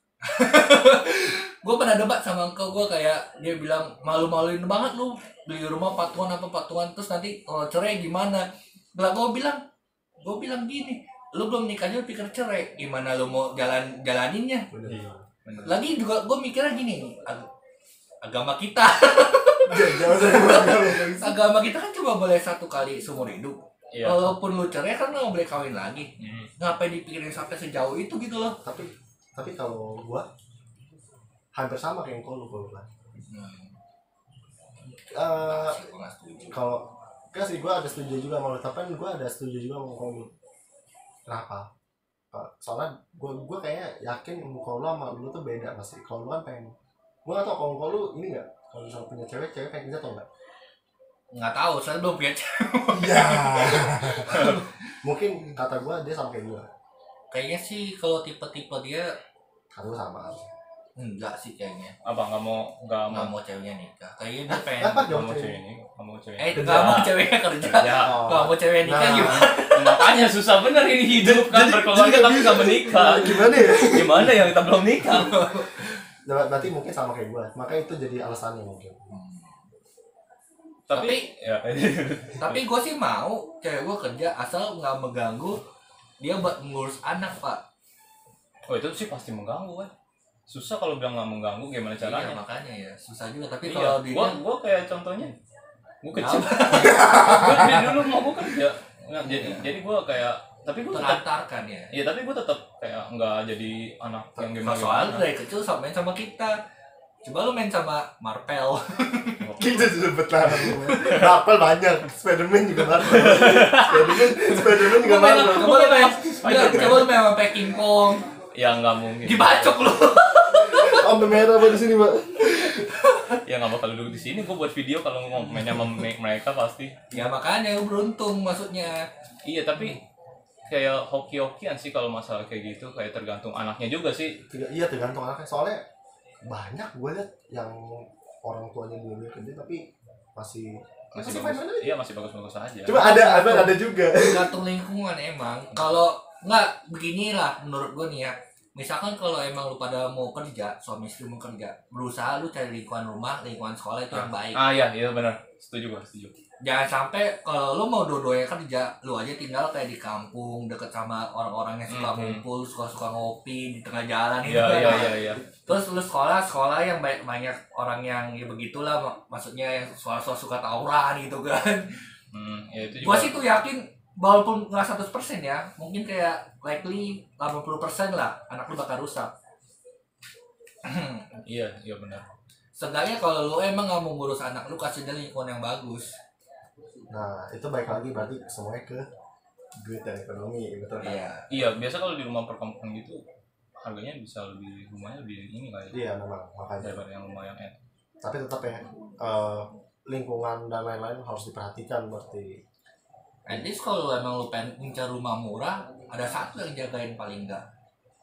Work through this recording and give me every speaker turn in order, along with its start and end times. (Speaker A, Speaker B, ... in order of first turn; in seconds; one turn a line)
Speaker A: 0.2-9.6
Speaker A: 10.2-14.7
Speaker B: 14.7-15.2
Speaker C: 14.9-15.8
Speaker A: 15.7-17.5
Speaker A: 18.2-28.6
Speaker B: 19.7-21.4
Speaker C: 23.9-24.3
Speaker C: 26.2-26.5
Speaker B: 28.6-30.3
Speaker B: 31.5-32.9
Speaker A: 33.3-33.8
Speaker B: 35.1-35.8
Speaker A: 35.2-36.6
Speaker B: 36.5-40.3
Speaker B: 41.3-41.7
Speaker B: 42.3-46.7
Speaker B: 47.2-50.3
Speaker A: 51.3-54.8
Speaker B: 52.9-56.7
Speaker C: 54.3-54.6
Speaker A: 57.3-59.1
Speaker B: 59.7-60.5
Speaker A: 61.0-62.0
Speaker C: 62.0-63.3
Speaker A: 63.1-65.1
Speaker B: 64.5-65.6
Speaker C: 64.9-68.3
Speaker A: 66.4-70.1
Speaker B: 67.9-69.5
Speaker C: 69.3-75.6
Speaker B: 71.1-74.5
Speaker A: 75.0-76.0
Speaker B: 76.2-79.1
Speaker A: 79.1-79.6
Speaker C: 80.9-82.6
Speaker A: 80.9-81.3
Speaker A: 82.4-85.6
Speaker A: 86.2-87.6
Speaker C: 88.7-89.9
Speaker C: 90.5-92.4
Speaker A: 92.0-94.4
Speaker C: 93.6-95.3
Speaker C: 96.0-101.2
Speaker A: 96.2-97.8
Speaker B: 97.0-97.5
Speaker A: 99.2-99.7
Speaker A: 100.9-101.9
Speaker C: 101.9-105.3
Speaker A: 104.6-106.6
Speaker A: 107.2-109.4
Speaker C: 109.4-110.0
Speaker B: 109.6-115.8
Speaker C: 110.6-111.4
Speaker A: 110.9-111.2
Speaker C: 113.1-114.3
Speaker A: 114.4-118.4
Speaker C: 115.3-117.1
Speaker C: 118.5-119.9
Speaker A: 119.2-121.4
Speaker B: 120.6-122.9
Speaker A: 122.4-123.4
Speaker C: 123.5-127.2
Speaker A: 127.1-129.1
Speaker C: 129.4-130.0
Speaker C: 130.7-134.4
Speaker B: 134.5-135.8
Speaker B: 136.4-141.9
Speaker C: 141.1-143.0
Speaker B: 142.8-144.6
Speaker A: 142.9-154.6
Speaker C: 154.1-156.3
Speaker A: 156.6-172.1
Speaker C: 161.9-162.4
Speaker C: 164.4-165.4
Speaker B: 165.1-165.5
Speaker C: 172.3-173.4
Speaker A: 173.0-179.3
Speaker A: 180.8-181.3
Speaker C: 181.4-182.3
Speaker A: 182.8-186.2
Speaker B: 187.1-189.1
Speaker B: 189.8-191.3
Speaker A: 191.0-191.5
Speaker C: 191.5-193.2
Speaker C: 193.8-196.0
Speaker B: 195.9-197.0
Speaker C: 196.8-197.7
Speaker B: 198.2-202.6
Speaker A: 203.5-207.6